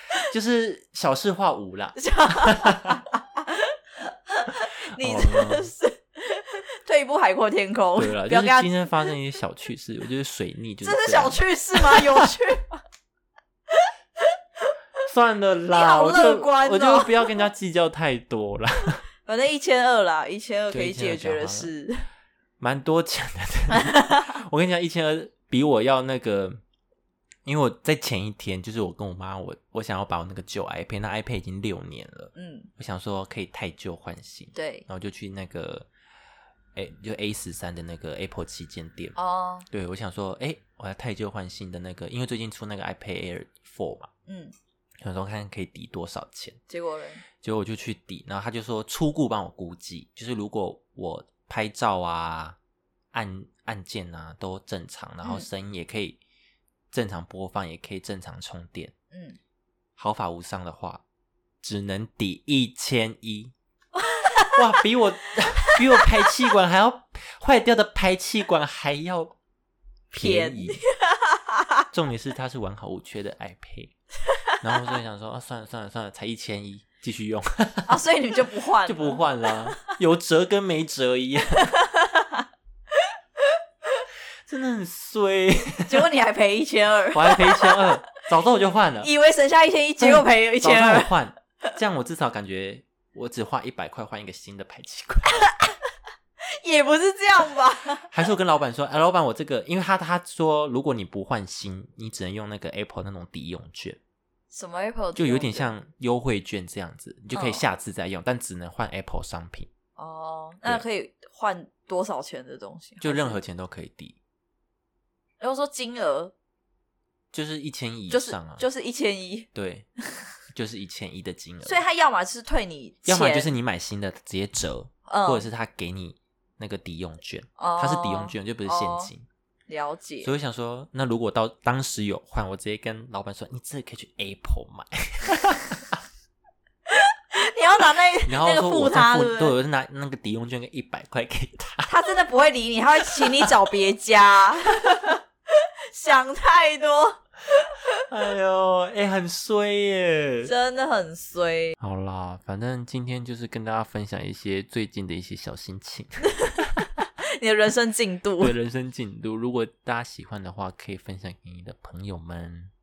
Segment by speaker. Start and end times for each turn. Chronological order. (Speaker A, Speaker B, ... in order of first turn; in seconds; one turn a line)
Speaker A: 0.3-2.0
Speaker B: 1.9-8.7
Speaker A: 5.0-5.7
Speaker A: 8.0-12.3
Speaker B: 10.8-12.8
Speaker B: 13.7-14.6
Speaker A: 15.1-19.0
Speaker B: 15.7-17.3
Speaker B: 19.2-22.1
Speaker A: 20.7-21.7
Speaker A: 22.6-26.6
Speaker A: 27.4-35.9
Speaker B: 32.3-32.7
Speaker B: 34.5-34.9
Speaker A: 36.7-39.1
Speaker B: 39.1-39.7
Speaker A: 39.7-44.1
Speaker B: 44.3-44.5
Speaker A: 45.0-46.6
Speaker B: 46.7-47.2
Speaker A: 47.4-52.6
Speaker A: 53.1-56.2
Speaker A: 56.9-58.9
Speaker B: 59.1-59.4
Speaker A: 60.0-61.0
Speaker A: 61.6-63.5
Speaker B: 64.0-64.6
Speaker A: 64.5-69.3
Speaker A: 70.1-70.8
Speaker B: 70.1-71.8
Speaker A: 71.9-73.9
Speaker B: 74.5-74.9
Speaker A: 74.6-77.9
Speaker B: 77.9-79.8
Speaker A: 78.8-81.7
Speaker B: 81.6-82.4
Speaker A: 84.5-86.0
Speaker B: 85.8-88.1
Speaker A: 87.1-89.1
Speaker B: 89.0-91.1
Speaker A: 90.0-95.3
Speaker B: 96.5-98.1
Speaker A: 98.0-104.0
Speaker B: 104.5-105.7
Speaker A: 105.2-109.7
Speaker B: 107.3-107.6
Speaker B: 110.0-113.4
Speaker A: 113.0-114.2
Speaker B: 115.4-116.3
Speaker A: 117.3-118.6
Speaker B: 118.1-119.5
Speaker A: 119.5-119.8
Speaker A: 120.5-121.8
Speaker B: 121.6-123.5
Speaker A: 123.0-129.2
Speaker B: 125.1-125.4
Speaker B: 127.6-129.1
Speaker B: 129.7-130.3
Speaker A: 130.2-135.9
Speaker B: 136.9-139.5
Speaker A: 138.2-141.9
Speaker B: 141.8-147.2
Speaker A: 143.0-143.5
Speaker A: 148.0-150.5
Speaker B: 150.4-151.8
Speaker A: 151.8-156.5
Speaker B: 157.2-158.5
Speaker A: 158.4-162.7